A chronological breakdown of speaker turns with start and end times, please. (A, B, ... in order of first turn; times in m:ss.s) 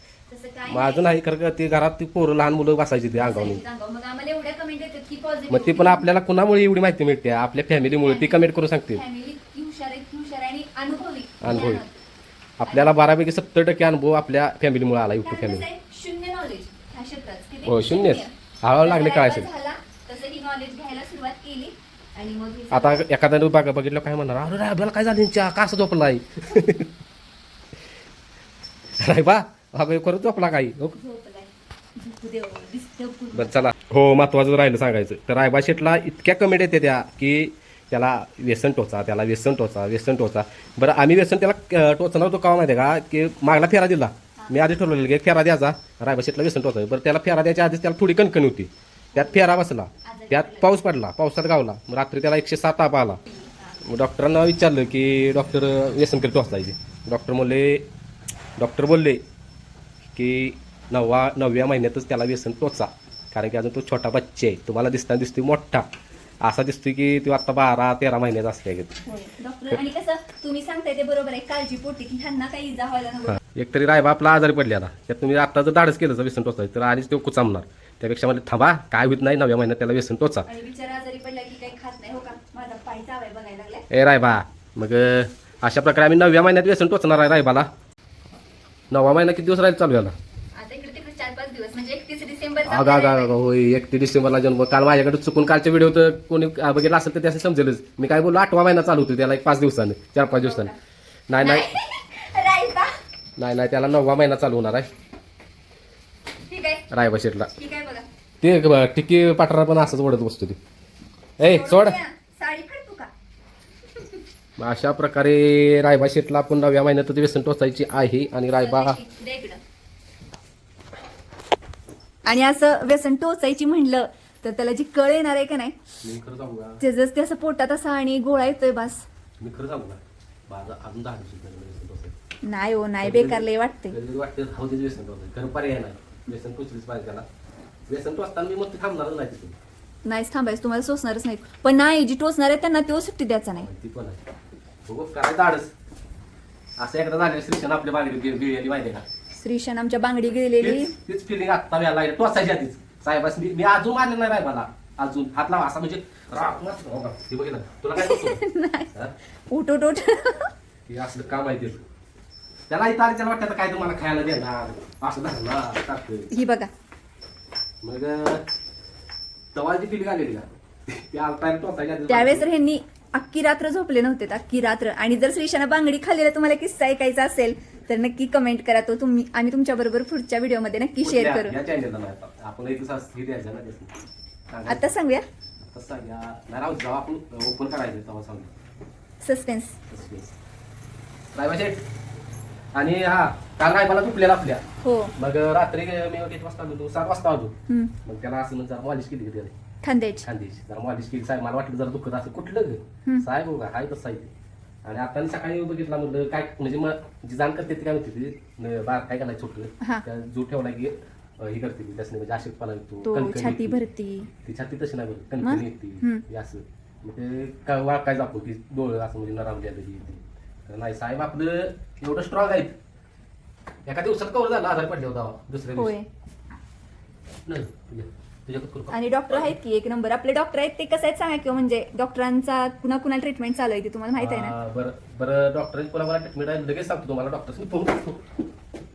0:00.3-0:01.1 A
0:00.7-0:03.6 B
0:03.2-0:06.1 A
0:05.5-0:09.0 B
0:08.0-0:11.9 A
0:11.4-0:11.8 B
0:12.6-0:15.6 B
0:12.7-0:12.9 A
0:15.2-0:23.0 A
0:17.6-0:19.5 B
0:22.7-0:26.9 B
0:29.0-0:31.0 B
0:30.9-0:33.6 A
0:33.4-0:53.2 B
0:49.2-0:49.5 A
0:50.0-0:50.8 A
0:53.3-0:53.8 A
0:53.8-0:57.9 B
0:58.6-0:59.2 B
1:00.2-1:05.9 B
1:06.4-1:09.0 B
1:09.1-1:13.4 A
1:13.3-1:20.5 B
1:20.4-1:23.9 A
1:23.9-1:27.7 B
1:28.9-1:30.2 B
1:30.6-1:33.3 A
1:32.6-1:40.7 B
1:40.3-1:40.8 A
1:41.3-1:41.7 B
1:41.3-1:43.0 A
1:43.4-1:44.9 B
1:46.5-1:46.9 A
1:46.9-1:47.5 B
1:47.6-1:48.1 A
1:48.4-1:50.6 B
1:51.4-1:52.0 B
1:51.4-1:53.1 A
1:54.0-1:54.2 A
1:54.6-1:59.0 B
1:58.5-1:59.6 A
2:02.3-2:05.8 A
2:06.0-2:06.8 B
2:06.8-2:09.0 A
2:09.4-2:12.2 B
2:12.4-2:14.0 A
2:13.0-2:17.3 B
2:17.9-2:19.6 B
2:20.1-2:23.7 A
2:23.6-2:24.2 B
2:24.9-2:25.7 B
2:26.8-2:29.1 B
2:29.4-2:30.9 A
2:30.6-2:39.1 B
2:38.0-2:38.9 A
2:39.5-2:40.5 A
2:40.9-2:41.8 B
2:42.7-2:46.3 B
2:46.3-2:46.7 A
2:47.8-2:48.4 B
2:49.5-2:52.5 B
2:52.1-3:01.6 A
3:01.0-3:04.9 B
3:04.7-3:05.2 A
3:05.7-3:08.5 B
3:09.2-3:09.8 A
3:09.9-3:10.3 B
3:11.3-3:11.8 B
3:12.8-3:14.6 B
3:14.8-3:15.1 A
3:15.2-3:19.5 B
3:17.7-3:17.9 A
3:19.8-3:20.3 A
3:20.2-3:24.3 B
3:24.8-3:33.8 B
3:33.0-3:34.3 A
3:34.4-3:42.8 B
3:35.4-3:36.2 A
3:43.9-3:46.0 B
3:45.8-3:46.1 A
3:47.5-3:49.6 B
3:48.9-3:54.5 A
3:54.2-3:58.3 B